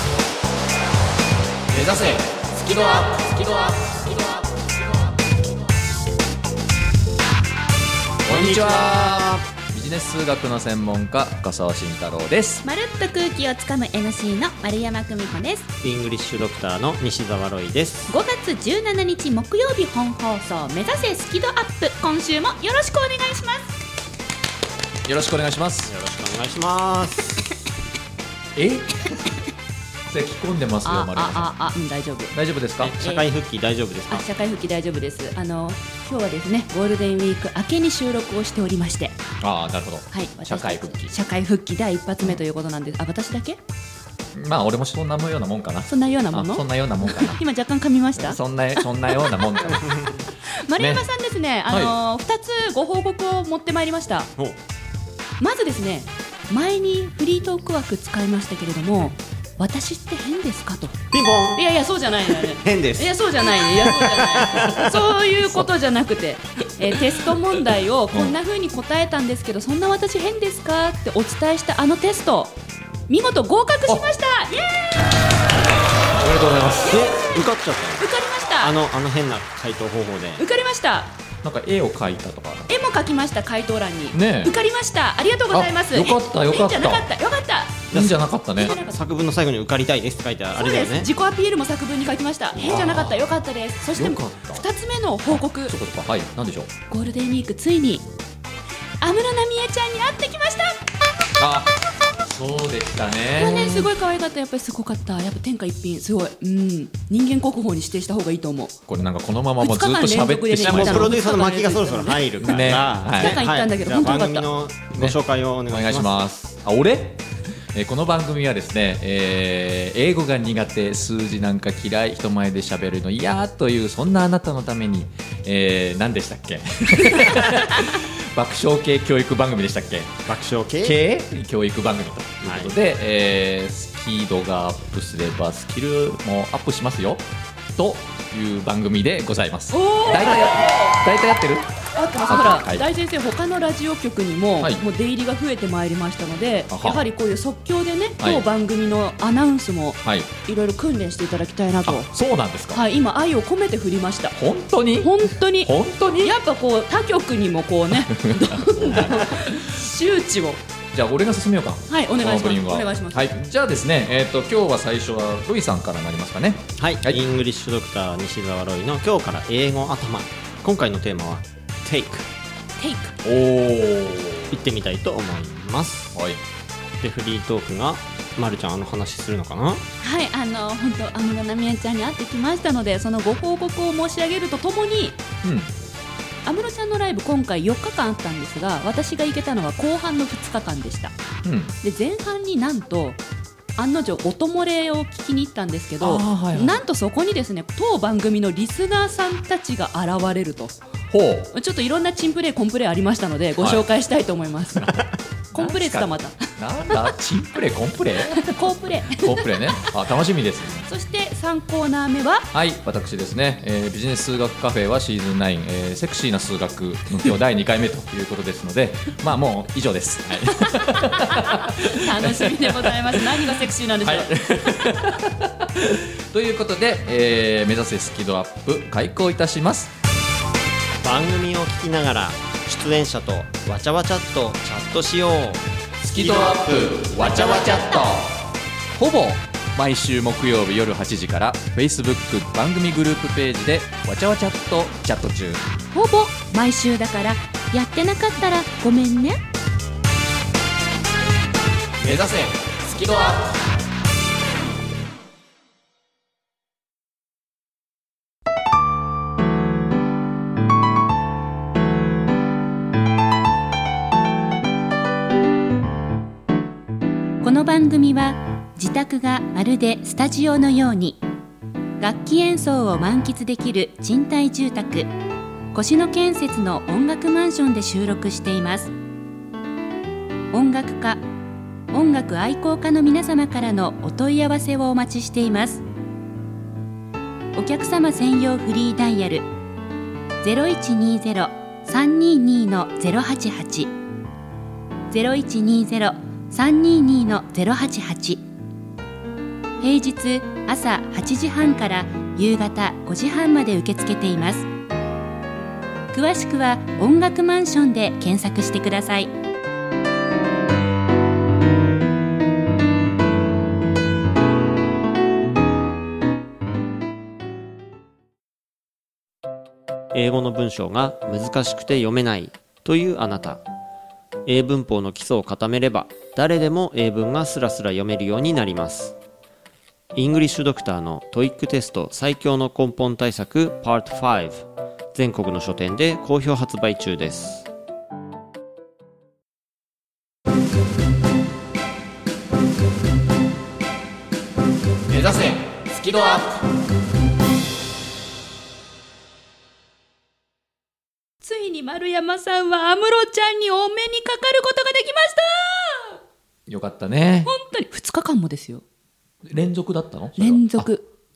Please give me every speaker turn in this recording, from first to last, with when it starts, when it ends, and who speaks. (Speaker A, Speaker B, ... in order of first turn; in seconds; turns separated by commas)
Speaker A: 1.7-2.9, Speaker B: 2.5-4.7, Speaker A: 8.2-12.6, Speaker C: 8.3-9.4, Speaker B: 12.6-15.7, Speaker C: 15.8-18.1, Speaker B: 18.1-23.7, Speaker A: 25.1-25.9, Speaker C: 25.9-27.5, Speaker A: 28.6-29.1, Speaker A: 30.1-31.6, Speaker B: 30.9-32.3, Speaker A: 32.3-32.9, Speaker C: 32.8-34.2, Speaker B: 33.0-33.3, Speaker B: 34.1-39.2, Speaker A: 39.4-41.1, Speaker B: 40.1-43.6, Speaker A: 44.4-47.4, Speaker B: 45.9-54.3, Speaker A: 48.2-50.0, Speaker C: 49.7-50.2, Speaker A: 50.8-51.1, Speaker A: 51.7-52.0, Speaker B: 55.4-61.0, Speaker C: 61.1-61.6, Speaker B: 61.5-72.5, Speaker C: 62.3-65.1, Speaker B: 73.1-75.0, Speaker A: 76.1-77.0, Speaker C: 76.8-80.4, Speaker B: 76.9-77.5, Speaker B: 78.0-78.7, Speaker B: 80.4-81.1, Speaker A: 81.4-82.7, Speaker B: 82.7-87.9, Speaker A: 84.1-84.5, Speaker A: 85.5-87.1, Speaker C: 87.9-91.1, Speaker A: 87.9-88.8, Speaker B: 88.6-89.0, Speaker B: 90.6-95.7, Speaker A: 92.6-93.3, Speaker A: 93.9-94.7, Speaker A: 95.3-96.7, Speaker B: 96.9-98.0, Speaker B: 99.0-100.8, Speaker A: 101.4-103.9, Speaker B: 103.4-108.8, Speaker A: 108.9-111.2, Speaker B: 109.6-114.5, Speaker C: 110.6-116.2, Speaker A: 112.4-113.4, Speaker A: 115.7-117.2, Speaker A: 117.7-130.2, Speaker C: 130.3-131.0, Speaker A: 130.8-142.9, Speaker C: 132.4-132.7, Speaker B: 139.7-141.0, Speaker B: 141.9-152.1, Speaker A: 146.7-147.1, Speaker A: 148.2-148.5, Speaker A: 150.0-150.3, Speaker A: 151.8-152.8, Speaker B: 152.7-154.4, Speaker A: 154.3-156.3, Speaker B: 155.0-160.6, Speaker A: 157.9-159.9, Speaker A: 160.9-167.2, Speaker B: 161.9-163.3, Speaker C: 166.8-172.3, Speaker B: 172.8-173.2, Speaker A: 173.2-174.6, Speaker C: 174.5-176.2, Speaker A: 176.1-176.4, Speaker C: 177.0-179.8, Speaker B: 180.0-185.2, Speaker A: 185.4-185.7, Speaker B: 186.5-191.2, Speaker A: 191.4-191.8, Speaker B: 191.8-193.2, Speaker B: 193.8-200.8, Speaker A: 196.0-196.8, Speaker A: 201.1-201.5, Speaker B: 201.5-205.0, Speaker A: 204.8-208.5, Speaker B: 205.5-206.5, Speaker B: 208.3-209.9, Speaker A: 209.1-210.9, Speaker B: 210.8-212.5, Speaker A: 212.5-229.9, Speaker B: 220.5-224.3, Speaker C: 231.0-235.6, Speaker A: 236.0-238.3, Speaker C: 236.2-238.1, Speaker A: 238.9-245.6, Speaker B: 245.9-249.4, Speaker A: 252.0-253.4, Speaker B: 267.4-271.2, Speaker B: 272.0-275.1, Speaker B: 275.7-278.9, Speaker B: 280.5-281.2, Speaker B: 281.9-285.8, Speaker B: 287.6-289.5, Speaker B: 290.4-293.9, Speaker B: 295.1-298.4, Speaker B: 299.8-304.7, Speaker B: 306.1-309.3, Speaker C: 320.1-323.6, Speaker C: 324.5-329.2, Speaker C: 330.1-337.7, Speaker B: 345.2-346.6, Speaker B: 351.4-356.2, Speaker A: 356.7-357.5, Speaker B: 357.4-358.8, Speaker A: 359.4-360.9, Speaker B: 360.4-361.1